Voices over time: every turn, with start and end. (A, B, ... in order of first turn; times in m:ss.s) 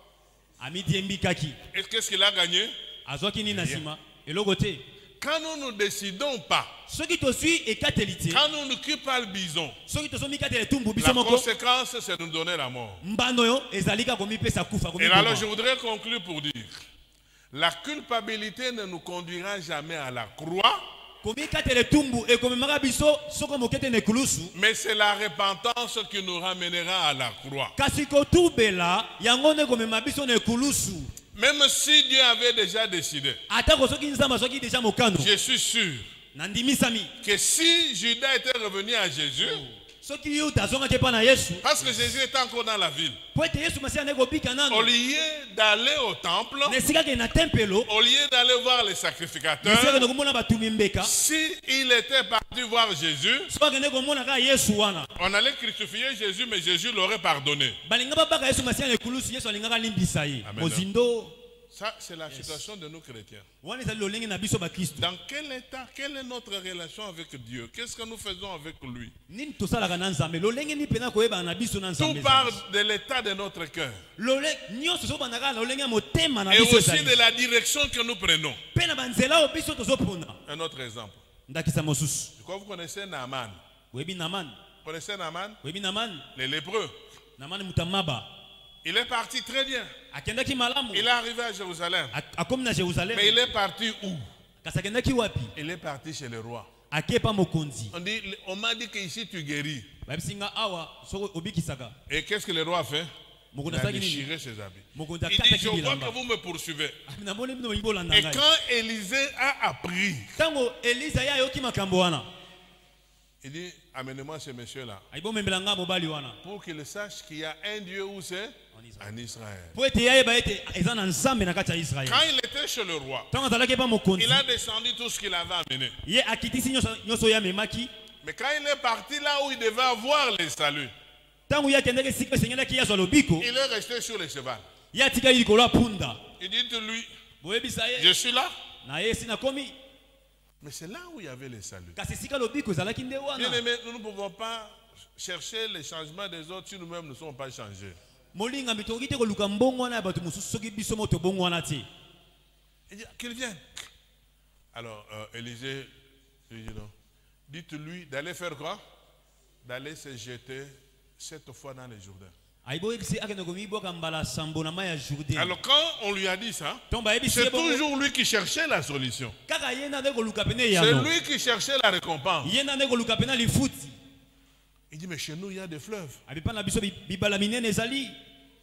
0:00.6-0:01.6 A
0:01.7-0:02.8 B
0:03.1-0:04.9 A
0:03.5-0:03.8 B
0:05.2-0:06.8 B
0:06.9-0:08.4 A
0:08.3-0:09.8 B
0:09.9-0:11.5 A
0:11.0-0:13.0 B
0:13.0-0:15.5 A
0:15.0-0:16.8 B
0:17.5-0:20.8 B
0:21.2-0:24.5 A
0:24.5-0:27.8 B
0:27.8-0:31.1 A
0:31.3-0:33.4 B
0:33.5-0:35.3 A
0:35.2-0:36.1 B
0:36.3-0:37.1 A
0:37.2-0:39.6 B
0:39.4-0:41.7 A
0:41.6-0:43.2 B
0:43.3-0:44.9 A
0:44.7-0:46.8 B
0:46.7-0:47.9 A
0:47.9-0:50.1 B
0:49.6-0:51.1 A
0:51.0-0:53.5 B
0:53.5-0:55.1 A
0:55.2-0:57.8 B
0:57.9-1:01.4 A
1:00.4-1:00.9 B
1:01.7-1:03.5 B
1:02.3-1:02.6 A
1:03.6-1:05.1 A
1:05.0-1:09.1 B
1:09.3-1:12.6 A
1:12.0-1:14.0 B
1:14.2-1:17.2 A
1:16.5-1:18.6 B
1:18.7-1:20.4 A
1:20.5-1:21.2 B
1:21.5-1:22.3 A
1:22.4-1:23.6 B
1:23.9-1:24.6 A
1:24.8-1:25.6 B
1:25.6-1:26.3 A
1:26.4-1:27.0 B
1:27.4-1:28.3 A
1:28.8-1:29.9 B
1:30.1-1:31.1 A
1:30.9-1:32.2 B
1:32.1-1:33.4 A
1:33.1-1:34.2 B
1:34.6-1:35.5 A
1:35.6-1:36.7 B
1:36.9-1:38.0 A
1:37.9-1:39.9 B
1:40.1-1:42.0 A
1:42.1-1:43.1 B
1:43.5-1:44.3 A
1:43.7-1:47.0 B
1:45.0-1:46.2 A
1:47.1-1:48.4 A
1:48.1-1:50.4 B
1:50.4-1:52.3 A
1:53.4-1:55.0 B
1:55.1-1:56.4 A
1:56.4-1:59.8 B
1:58.7-1:59.1 A
1:59.8-2:02.3 A
2:02.0-2:03.3 B
2:03.3-2:04.4 A
2:04.2-2:06.0 B
2:06.0-2:07.9 A
2:08.2-2:10.9 B
2:11.5-2:13.5 A
2:13.4-2:14.7 B
2:14.9-2:16.2 A
2:16.4-2:17.1 B
2:17.4-2:18.1 A
2:18.0-2:18.6 B
2:18.8-2:19.8 A
2:20.6-2:22.0 B
2:22.0-2:23.6 A
2:23.4-2:28.0 B
2:28.3-2:31.9 A
2:32.9-2:33.9 B
2:34.7-2:35.9 B
2:36.5-2:36.9 B
2:37.5-2:38.8 B
2:39.6-2:42.3 B
2:42.6-2:45.5 A
2:45.4-2:49.4 B
2:46.9-2:47.8 A
2:49.5-2:51.1 A
2:50.7-2:52.6 B
2:52.4-2:54.0 A
2:54.9-2:56.2 B
2:56.3-2:58.2 A